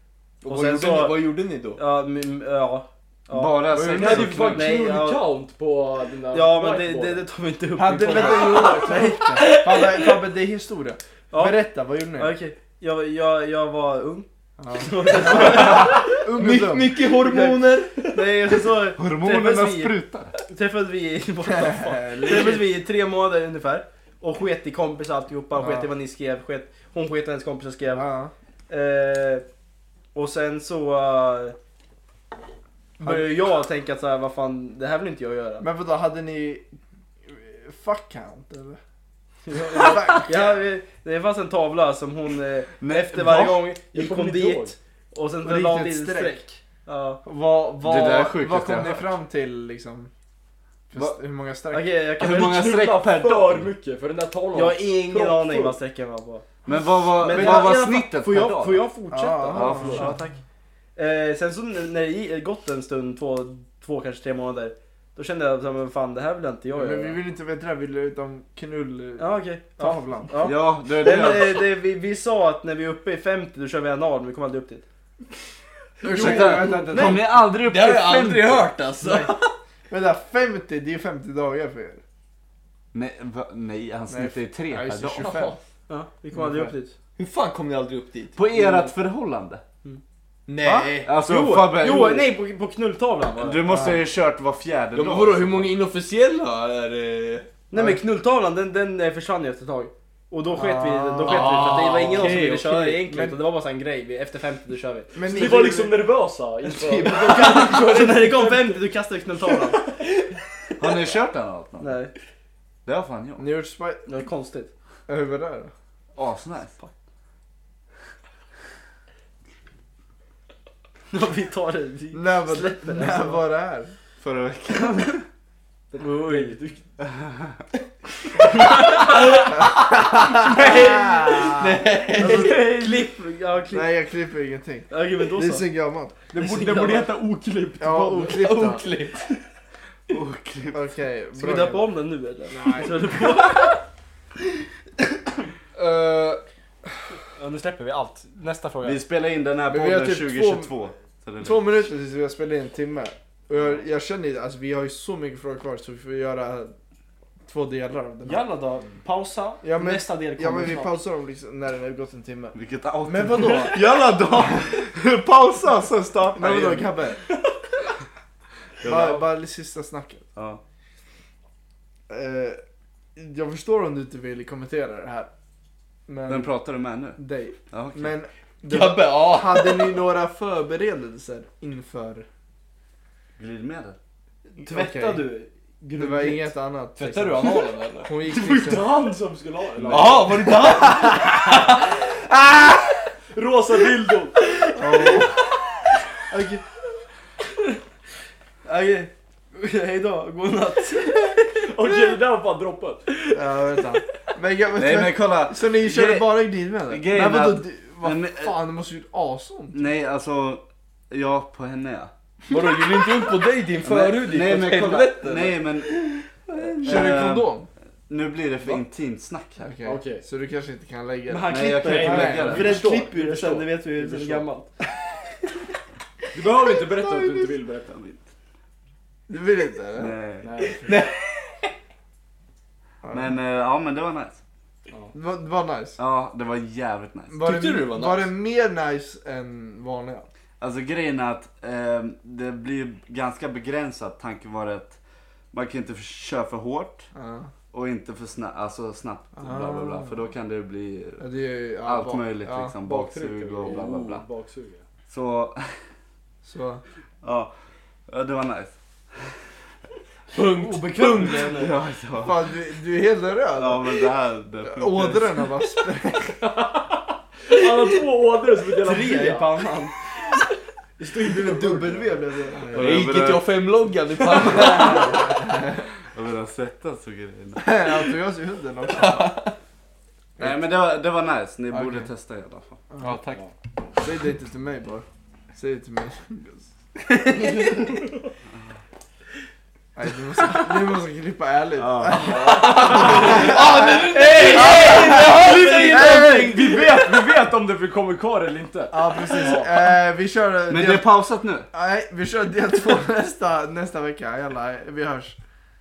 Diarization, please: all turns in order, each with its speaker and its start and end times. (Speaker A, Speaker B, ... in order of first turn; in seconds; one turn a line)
Speaker A: 0.4-1.8
Speaker B: 0.4-5.2
Speaker C: 3.3-4.9
Speaker D: 3.8-7.2
Speaker B: 6.3-9.5
Speaker E: 7.8-12.3
Speaker D: 8.2-10.1
Speaker B: 11.3-11.6
Speaker B: 12.1-16.2
Speaker E: 14.6-16.9
Speaker A: 15.4-18.1
Speaker B: 17.1-28.1
Speaker C: 18.9-20.3
Speaker E: 21.4-22.7
Speaker E: 25.6-25.9
Speaker E: 27.9-28.3
Speaker B: 28.7-29.4
Speaker B: 30.1-31.6
Speaker B: 33.0-35.6
Speaker E: 33.0-33.3
Speaker E: 35.6-36.7
Speaker E: 37.2-38.8
Speaker B: 39.5-47.2
Speaker E: 39.5-40.6
Speaker C: 42.8-43.6
Speaker D: 43.9-44.8
Speaker E: 45.4-46.4
Speaker E: 47.2-50.1
Speaker C: 47.8-49.1
Speaker E: 50.9-51.9
Speaker B: 51.7-52.7
Speaker C: 52.2-53.7
Speaker D: 52.2-55.8
Speaker B: 54.5-56.5
Speaker C: 56.6-58.9
Speaker B: 57.1-60.4
Speaker E: 57.3-57.7
Speaker E: 59.1-60.2
Speaker C: 59.5-60.1
Speaker B: 61.0-67.2
Speaker E: 66.7-70.5
Speaker B: 69.2-74.8
Speaker C: 70.4-71.6
Speaker A: 76.0-77.0
Speaker E: 76.0-77.3
Speaker C: 76.1-78.7
Speaker B: 76.9-77.2
Speaker A: 77.6-79.5
Speaker E: 79.0-79.3
Speaker E: 79.9-82.0
Speaker C: 82.9-85.5
Speaker E: 84.1-85.6
Speaker D: 85.2-85.5
Speaker B: 85.9-86.9
Speaker E: 86.3-86.7
Speaker A: 87.2-88.9
Speaker C: 88.3-89.6
Speaker A: 90.5-91.1
Speaker E: 90.6-91.0
Speaker C: 91.0-92.3
Speaker B: 91.2-93.9
Speaker C: 93.4-95.7
Speaker E: 93.7-94.0
Speaker A: 94.9-97.5
Speaker B: 97.7-105.2
Speaker E: 97.7-98.0
Speaker E: 100.5-101.8
Speaker A: 101.2-103.1
Speaker E: 103.1-103.4
Speaker E: 105.1-106.0
Speaker D: 105.1-108.9
Speaker A: 106.7-108.2
Speaker B: 107.1-109.8
Speaker D: 109.4-110.0
Speaker C: 110.8-112.0
Speaker B: 111.8-112.1
Speaker C: 112.8-113.5
Speaker E: 113.4-114.0
Speaker B: 114.0-114.7
Speaker E: 115.1-115.7
Speaker C: 116.1-116.7
Speaker B: 121.1-123.4
Speaker E: 122.1-123.9
Speaker C: 124.2-125.2
Speaker D: 125.9-126.6
Speaker B: 126.0-126.8
Speaker B: 128.4-129.7
Speaker A: 129.2-132.7
Speaker E: 129.6-132.7
Speaker B: 130.3-131.5
Speaker B: 132.1-133.9
Speaker E: 133.7-136.2
Speaker B: 134.9-135.6
Speaker D: 136.3-138.7
Speaker B: 136.3-137.1
Speaker E: 137.8-138.8
Speaker A: 138.2-139.3
Speaker C: 140.1-140.8
Speaker E: 140.7-141.8
Speaker B: 141.4-143.8
Speaker E: 142.5-143.2
Speaker E: 145.7-146.4
Speaker B: 147.3-149.0
Speaker C: 148.8-151.6
Speaker E: 149.7-150.7
Speaker E: 151.4-156.7
Speaker E: 157.4-158.4
Speaker B: 158.2-161.0
Speaker E: 159.6-164.9
Speaker C: 162.5-166.9
Speaker E: 165.6-167.2
Speaker C: 168.8-169.2
Speaker E: 168.8-170.2
Speaker C: 170.3-170.6
Speaker E: 172.1-172.6
Speaker E: 173.2-175.3
Speaker E: 176.1-176.5
Speaker C: 176.3-178.1
Speaker E: 177.2-182.3
Speaker A: 178.7-179.9
Speaker C: 183.4-184.0
Speaker B: 184.6-186.5
Speaker E: 184.6-185.2
Speaker E: 186.0-188.9
Speaker A: 187.0-188.1
Speaker D: 188.2-190.6
Speaker A: 189.9-191.3
Speaker E: 190.7-191.6
Speaker D: 193.3-194.3
Speaker E: 194.8-195.4
Speaker B: 194.9-195.2
Speaker B: 196.3-196.6
Speaker B: 198.6-201.9
Speaker D: 201.5-203.0
Speaker E: 203.3-209.8
Speaker C: 204.8-208.6
Speaker C: 209.7-212.1
Speaker A: 212.5-216.2
Speaker C: 213.8-216.0
Speaker C: 216.6-217.5
Speaker E: 216.8-217.7
Speaker C: 218.1-219.7
Speaker E: 219.6-222.8
Speaker D: 219.8-220.2
Speaker B: 221.3-224.7
Speaker C: 221.5-223.1
Speaker D: 221.8-222.8
Speaker A: 224.1-224.4
Speaker D: 226.3-227.9
Speaker C: 227.9-228.2
Speaker E: 229.3-230.2
Speaker C: 230.0-230.5
Speaker D: 230.4-230.9
Speaker E: 233.0-233.3
Speaker C: 233.1-234.4
Speaker E: 235.1-236.0
Speaker C: 236.0-237.4
Speaker E: 237.3-240.3
Speaker A: 237.4-238.3
Speaker C: 240.6-245.0
Speaker C: 245.5-247.1
Speaker E: 247.1-247.5
Speaker C: 247.7-251.2
Speaker E: 249.3-250.2
Speaker E: 251.2-252.8
Speaker C: 251.8-254.2
Speaker D: 252.8-254.8
Speaker C: 255.1-255.7
Speaker E: 256.4-256.8
Speaker C: 257.2-257.5
Speaker C: 258.1-258.7
Speaker A: 260.3-261.6
Speaker B: 260.5-261.7
Speaker C: 261.5-262.5
Speaker E: 262.2-264.1
Speaker C: 263.6-265.4
Speaker E: 264.6-266.4
Speaker D: 266.4-269.5
Speaker B: 268.8-269.9
Speaker D: 271.0-272.2
Speaker E: 271.2-273.0
Speaker A: 272.7-275.1
Speaker C: 272.7-273.6
Speaker C: 274.4-275.4
Speaker E: 274.5-275.8
Speaker C: 276.1-277.9
Speaker E: 277.6-279.3
Speaker A: 278.9-279.5
Speaker E: 280.4-280.6
Speaker C: 280.4-282.8
Speaker E: 281.7-282.1
Speaker E: 282.9-283.2
Speaker A: 283.0-283.4
Speaker E: 284.0-287.9
Speaker E: 289.9-296.8
Speaker C: 291.8-292.4
Speaker D: 292.1-293.4
Speaker A: 292.5-296.8
Speaker D: 294.1-299.9
Speaker E: 298.9-301.1
Speaker C: 300.7-301.7
Speaker E: 301.7-305.4